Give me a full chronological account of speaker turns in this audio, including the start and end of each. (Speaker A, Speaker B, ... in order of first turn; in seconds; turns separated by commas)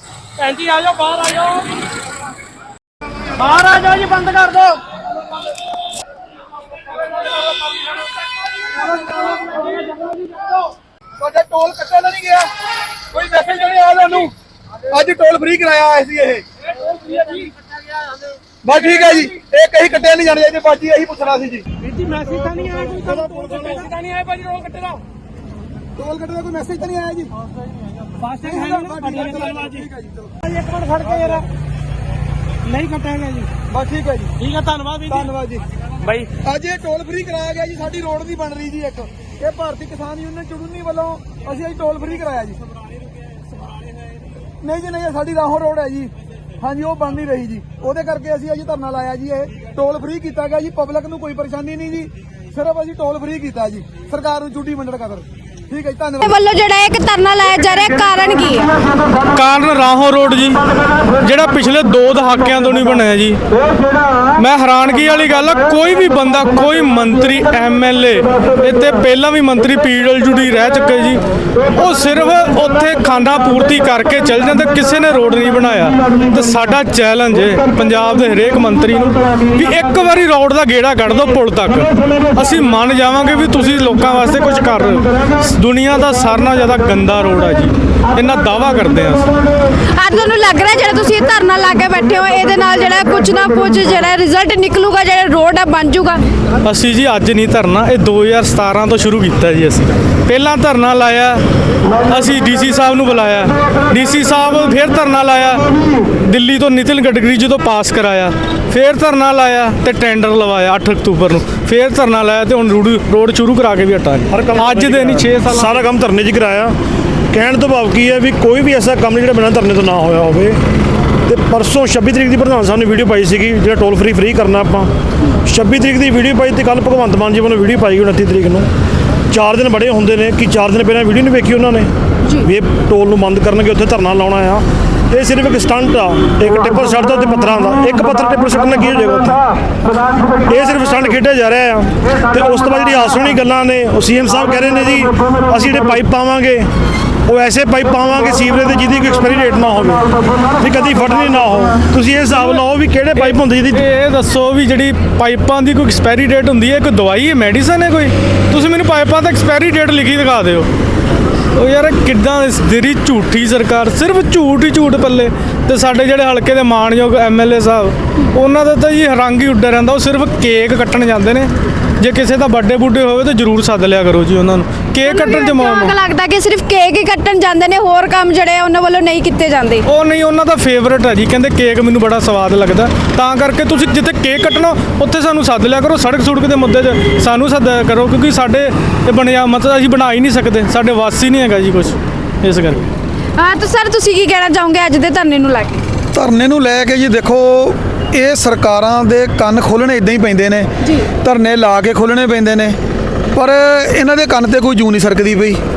Speaker A: 0.4-1.6, Speaker A: 3.4-4.7, Speaker B: 11.2-12.5, Speaker B: 13.1-14.3, Speaker B: 14.9-16.4, Speaker B: 18.6-21.6, Speaker A: 21.9-22.9, Speaker B: 22.5-23.9, Speaker A: 24.0-24.6, Speaker B: 25.9-27.3, Speaker A: 28.2-29.6, Speaker B: 28.3-30.4, Speaker A: 30.5-31.4, Speaker A: 32.7-33.5, Speaker B: 33.7-34.3, Speaker A: 34.4-35.2, Speaker B: 35.1-35.6, Speaker B: 36.4-42.6, Speaker B: 44.5-56.3, Speaker C: 56.2-58.7, Speaker D: 59.3-60.6, Speaker D: 61.2-63.4, Speaker D: 64.4-71.2, Speaker D: 71.7-89.3, Speaker C: 90.0-96.2, Speaker D: 96.6-101.4, Speaker D: 102.1-105.6, Speaker D: 106.2-115.8, Speaker E: 114.3-116.7, Speaker E: 117.3-120.6, Speaker E: 121.2-124.9, Speaker E: 125.5-128.7, Speaker E: 129.3-131.9, Speaker E: 132.4-139.4, Speaker E: 140.4-146.7, Speaker E: 147.3-150.1, Speaker E: 150.6-153.8, Speaker D: 153.2-160.7, Speaker D: 161.5-175.9, Speaker C: 175.0-179.8, Speaker D: 179.8-192.9, Speaker C: 193.4-195.8, Speaker B: 196.1-202.8, Speaker C: 200.8-201.1, Speaker B: 203.3-205.6